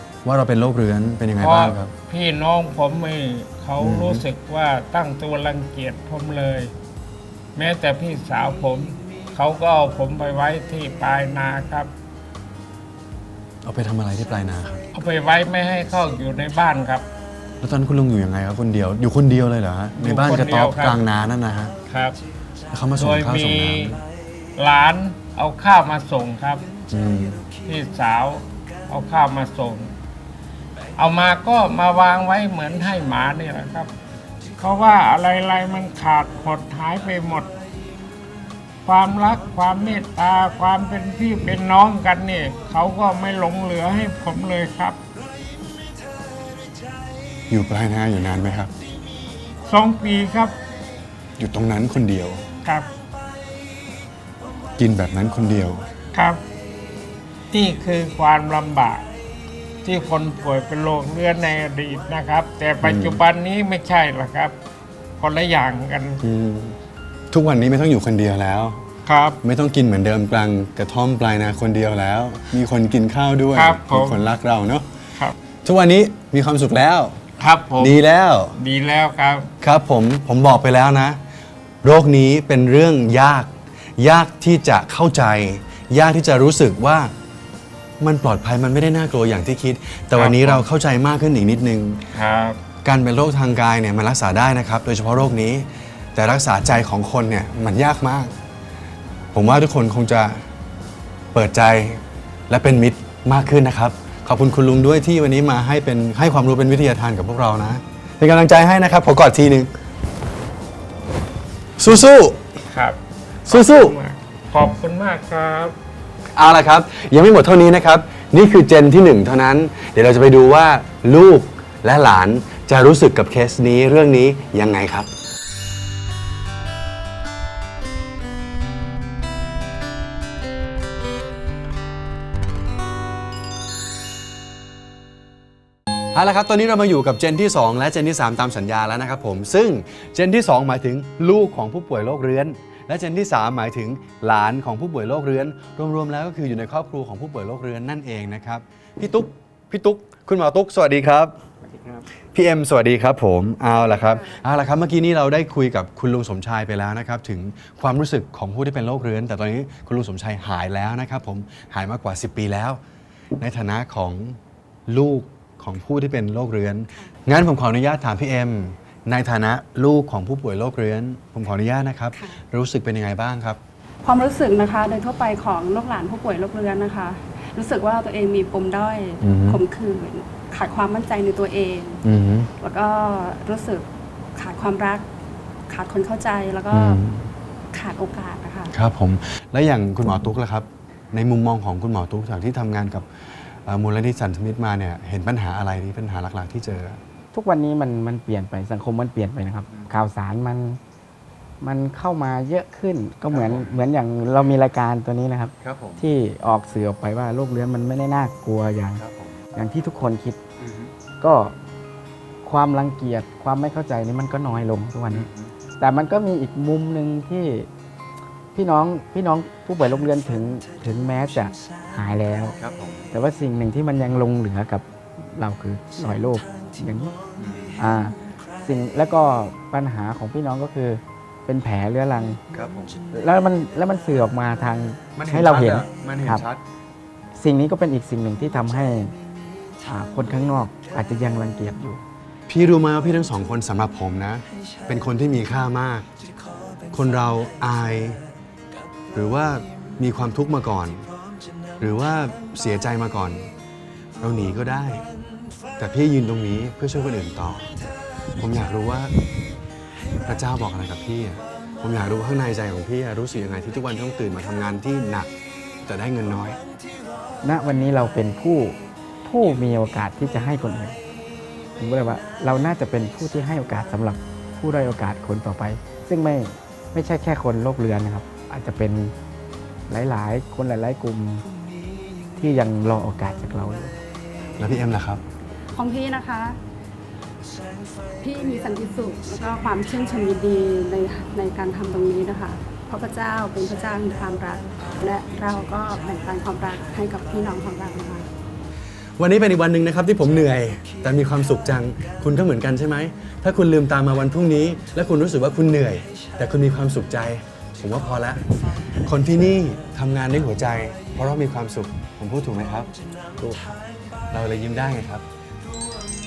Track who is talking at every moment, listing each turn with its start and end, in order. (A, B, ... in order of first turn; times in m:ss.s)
0:00.2-0:01.9 A
0:01.4-0:06.7 B
0:03.8-0:04.2 A
0:07.6-0:11.9 B
0:13.6-0:14.8 A
0:14.9-0:17.0 B
0:17.6-0:21.7 A
0:20.0-0:21.0 B
0:21.9-0:22.2 B
0:22.7-0:24.0 A
0:23.0-0:24.0 B
0:24.6-0:26.6 B
0:26.9-0:27.5 A
0:27.6-0:29.9 B
0:31.0-0:33.9 B
0:34.6-0:37.5 B
0:38.8-0:45.0 B
0:47.5-0:48.7 A
0:49.6-0:50.6 B
0:51.4-0:52.4 A
0:52.6-0:52.9 B
0:54.8-0:55.8 A
0:56.1-0:56.4 B
0:57.5-0:59.0 B
0:59.8-1:04.5 B
1:02.8-1:03.2 A
1:05.2-1:06.2 B
1:06.2-1:06.8 A
1:07.3-1:08.8 A
1:09.0-1:09.4 B
1:09.4-1:14.8 A
1:13.5-1:14.2 B
1:15.6-1:17.2 A
1:17.4-1:18.0 B
1:17.8-1:18.5 A
1:18.5-1:19.5 B
1:19.6-1:21.2 A
1:21.8-1:27.1 A
1:28.0-1:32.0 A
1:30.2-1:30.6 B
1:32.1-1:32.6 B
1:32.8-1:38.3 A
1:39.3-1:40.4 A
1:41.3-1:49.7 A
1:51.8-1:52.4 A
1:52.7-1:55.7 B
1:53.5-1:54.0 A
1:56.3-2:05.1 A
2:16.1-2:31.4 A
2:32.3-2:42.8 A
2:43.4-2:53.6 A
2:54.0-3:02.0 C
2:59.2-2:59.6 A
3:02.0-3:02.5 A
3:02.6-3:05.1 C
3:05.7-3:07.0 C
3:06.7-3:07.3 A
3:07.7-3:08.7 C
3:08.7-3:13.1 A
3:13.6-3:17.0 A
3:17.3-3:20.8 D
3:19.7-3:20.0 A
3:21.6-3:29.0 D
3:23.3-3:23.7 A
3:25.6-3:26.0 A
3:29.0-3:29.4 A
3:29.5-3:30.4 D
3:30.6-3:30.9 A
3:31.2-3:31.6 D
3:32.4-3:35.3 D
3:35.1-3:35.5 A
3:35.8-3:37.7 D
3:38.5-3:42.5 D
3:42.6-3:43.0 A
3:43.1-3:47.1 D
3:47.4-3:47.8 A
3:47.8-3:52.4 D
3:52.5-3:53.0 A
3:53.1-3:56.4 D
3:55.1-3:56.6 A
3:57.3-3:59.1 D
3:59.8-4:02.0 D
4:02.5-4:06.0 A
4:06.9-4:08.2 A
4:09.1-4:11.1 A
4:11.8-4:13.5 A
4:14.2-4:15.0 A
4:15.8-4:17.7 A
4:18.4-4:19.1 A
4:20.2-4:25.3 A
4:25.8-4:26.6 A
4:27.4-4:31.0 D
4:31.8-4:39.1 D
4:39.9-4:41.4 D
4:42.4-4:43.9 D
4:44.6-4:45.2 A
4:45.7-4:46.6 C
4:48.2-4:58.3 C
4:59.2-5:08.4 A
5:09.0-5:13.6 A
5:14.3-5:15.2 A